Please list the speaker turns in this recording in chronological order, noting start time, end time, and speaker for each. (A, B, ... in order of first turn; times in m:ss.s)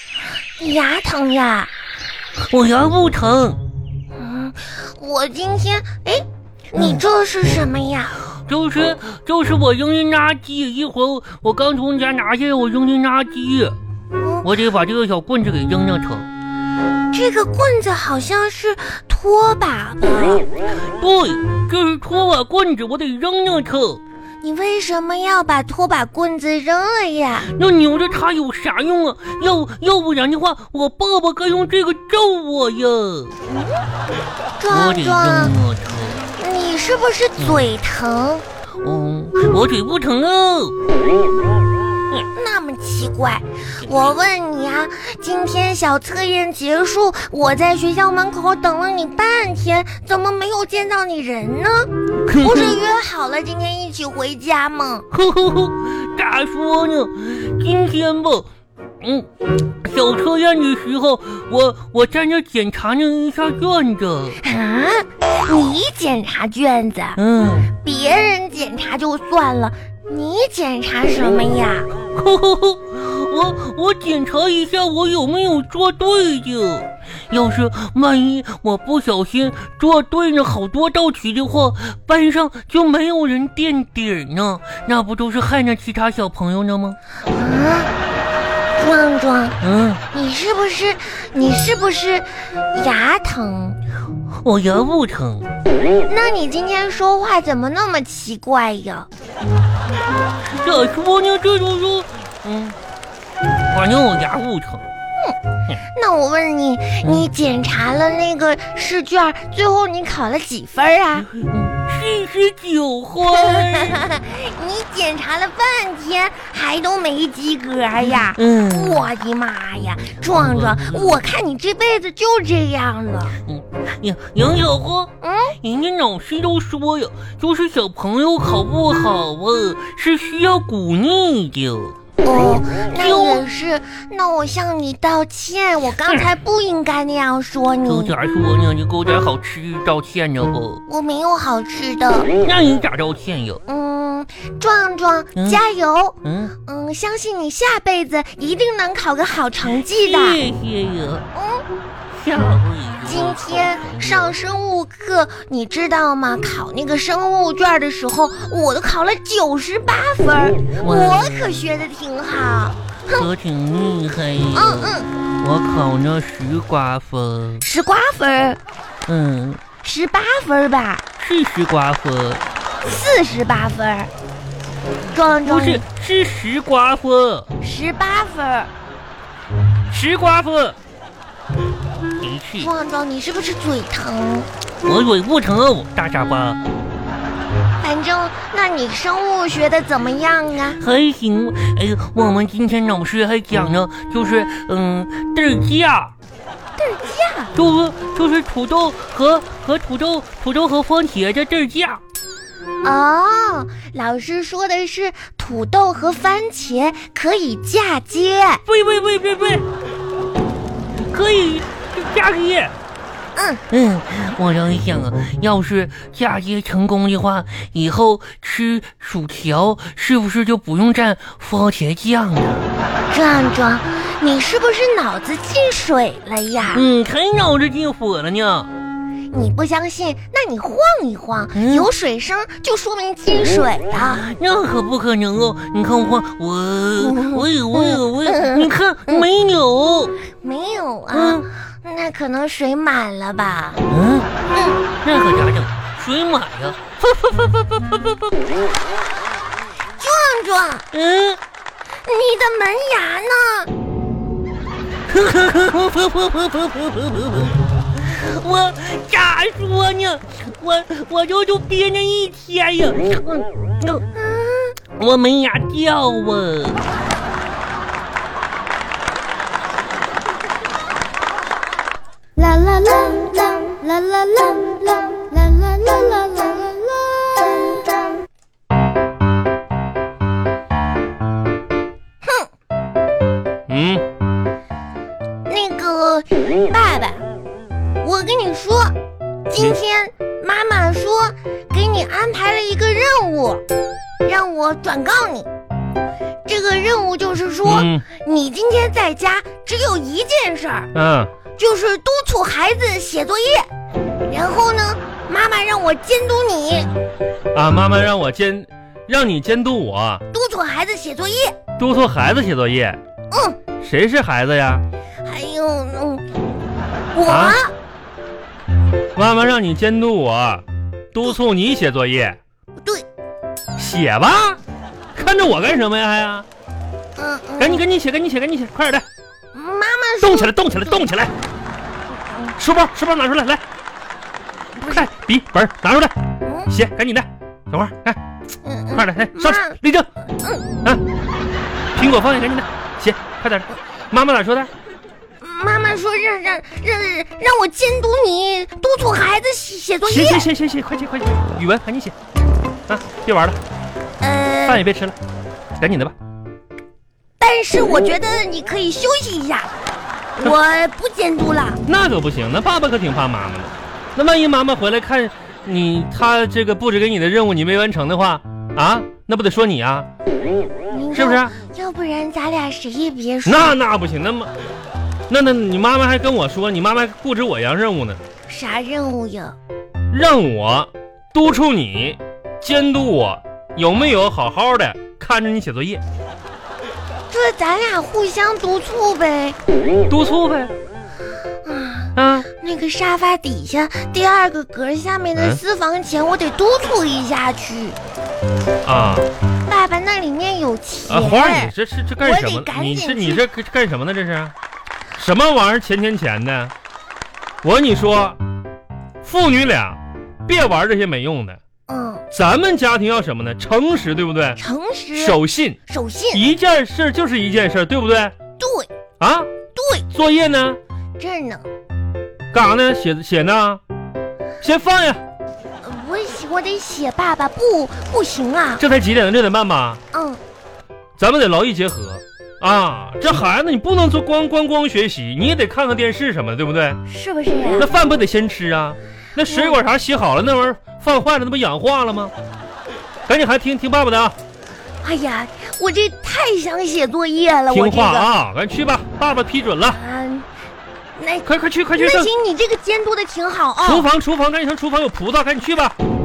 0:00.6-0:01.7 A
0:02.4-0:03.6 B
0:04.2-0:08.2 A
0:08.5-0:13.8 B
0:14.2-0:14.5 A
0:14.4-0:16.3 B
0:17.1-0:20.5 A
0:21.0-0:24.0 B
0:24.4-0:27.5 A
0:27.4-0:33.4 B
0:33.5-0:33.9 A
0:34.6-0:35.6 A
0:34.7-0:36.2 B
0:36.4-0:38.4 A
0:37.4-0:37.6 B
0:38.8-0:40.8 B
0:42.3-0:55.1 A
0:43.8-0:44.2 B
0:52.3-0:52.8 B
0:55.1-0:58.5 B
0:59.0-0:59.3 B
0:59.8-1:04.4 B
1:04.4-1:07.2 A
1:07.2-1:07.7 B
1:07.7-1:11.9 A
1:12.2-1:27.0 B
1:27.2-1:27.9 A
1:28.8-1:29.6 A
1:29.6-1:30.0 B
1:30.1-1:33.8 A
1:34.4-1:35.5 B
1:36.1-1:39.1 A
1:40.6-1:42.8 B
1:43.7-1:44.9 B
1:45.9-1:51.3 A
1:51.3-1:54.0 B
1:53.3-2:03.4 A
1:58.0-1:59.1 B
2:00.3-2:01.2 B
2:03.4-2:12.0 B
2:05.2-2:05.6 A
2:12.2-2:18.2 A
2:12.9-2:13.4 B
2:17.9-2:20.8 B
2:20.9-2:22.3 A
2:22.4-2:23.6 B
2:23.7-2:30.4 A
2:26.2-2:26.5 B
2:29.9-2:31.2 B
2:31.3-2:31.6 A
2:32.1-2:34.4 B
2:33.0-2:43.3 A
2:40.8-2:41.6 B
2:43.1-2:47.6 B
2:44.5-2:45.1 A
2:47.6-2:48.6 A
2:49.1-2:49.6 B
2:49.8-2:51.0 A
2:51.2-2:52.4 B
2:52.8-2:54.1 A
2:55.1-2:55.9 A
2:55.4-2:57.5 B
2:57.6-2:58.7 A
2:59.9-3:00.8 B
3:02.2-3:02.7 B
3:02.6-3:04.5 A
3:04.8-3:06.6 B
3:07.8-3:10.8 A
3:10.8-3:16.1 B
3:16.8-3:17.5 A
3:17.6-3:22.0 B
3:22.8-3:28.6 A
3:28.7-3:29.6 B
3:31.1-3:32.7 B
3:33.4-3:33.6 A
3:33.7-3:42.6 B
3:43.1-3:46.9 A
3:46.7-3:48.7 B
3:49.3-3:54.3 A
3:51.5-3:51.9 B
3:54.2-4:00.1 B
3:57.0-3:59.3 A
4:00.4-4:03.8 A
4:01.1-4:01.4 B
4:03.9-4:04.3 B
4:04.5-4:04.8 A
4:05.0-4:08.3 B
4:10.0-4:10.9 A
4:10.9-4:11.4 B
4:12.0-4:13.7 A
4:15.1-4:24.0 B
4:24.1-4:24.8 A
4:25.0-4:26.8 B
4:32.4-4:38.2 A
4:42.2-4:42.5 A
4:43.7-4:44.0 C
4:45.5-4:47.2 A
4:48.0-4:48.9 A
4:49.5-4:53.6 A
4:54.2-4:55.5 A
4:56.5-5:00.9 A
4:57.6-4:58.0 C
5:01.0-5:01.3 C
5:01.6-5:03.7 A
5:04.3-5:06.9 A
5:07.5-5:10.2 C
5:10.3-5:11.6 A
5:11.8-5:13.0 C
5:13.3-5:13.6 A
5:13.8-5:14.8 C
5:15.2-5:16.2 A
5:17.1-5:17.7 A
5:17.3-5:17.6 C
5:19.2-5:22.4 C
5:23.8-5:24.6 C
5:25.2-5:26.5 C
5:27.2-5:27.8 A
5:27.6-5:29.1 C
5:29.5-5:31.0 A
5:30.2-5:31.3 C
5:32.1-5:32.6 A
5:32.6-5:33.6 C
5:34.8-5:35.1 A
5:34.9-5:36.1 C
5:36.4-5:36.7 A
5:36.7-5:38.2 C
5:38.6-5:39.8 A
5:39.0-5:40.1 C
5:42.0-5:44.7 C
5:45.4-5:50.5 A
5:50.0-5:52.1 C
5:52.9-5:53.6 C
5:54.2-5:54.8 A
5:54.7-5:55.2 C
5:55.8-5:56.2 C
5:57.4-5:59.7 A
6:00.4-6:01.8 A
6:01.9-6:10.1 C
6:10.9-6:13.8 A
6:11.1-6:11.5 C
6:13.5-6:14.5 C
6:15.3-6:18.2 C
6:18.5-6:19.6 A
6:20.1-6:26.0 C
6:27.3-6:29.6 A
6:30.1-6:30.7 C
6:31.6-6:38.0 A
6:32.2-6:32.4 C
6:35.4-6:35.6 C
6:38.8-6:39.3 C
6:39.7-6:43.4 A
6:41.1-6:44.5 C
6:45.2-6:46.7 C
6:47.6-6:48.4 C
6:49.2-6:51.6 C
6:51.9-6:52.2 A
6:52.3-6:54.6 C
6:54.6-6:56.4 A
6:55.2-6:55.8 C
6:56.3-6:58.3 C
6:58.6-6:58.9 A
6:59.2-6:59.5 C
6:59.8-7:00.0 A
7:00.1-7:00.8 C
7:01.2-7:01.7 A
7:02.5-7:03.8 C
7:04.6-7:05.2 C
7:05.8-7:08.8 A
7:08.8-7:10.0 C
7:10.1-7:10.4 A
7:11.2-7:17.0 C
7:17.1-7:17.9 A
7:17.8-7:22.3 C
7:19.5-7:19.8 A
7:23.3-7:24.4 C
7:25.0-7:28.3 A
7:27.7-7:30.0 C
7:29.8-7:30.5 A
7:31.2-7:34.1 A
7:31.4-7:32.3 C
7:33.8-7:36.0 C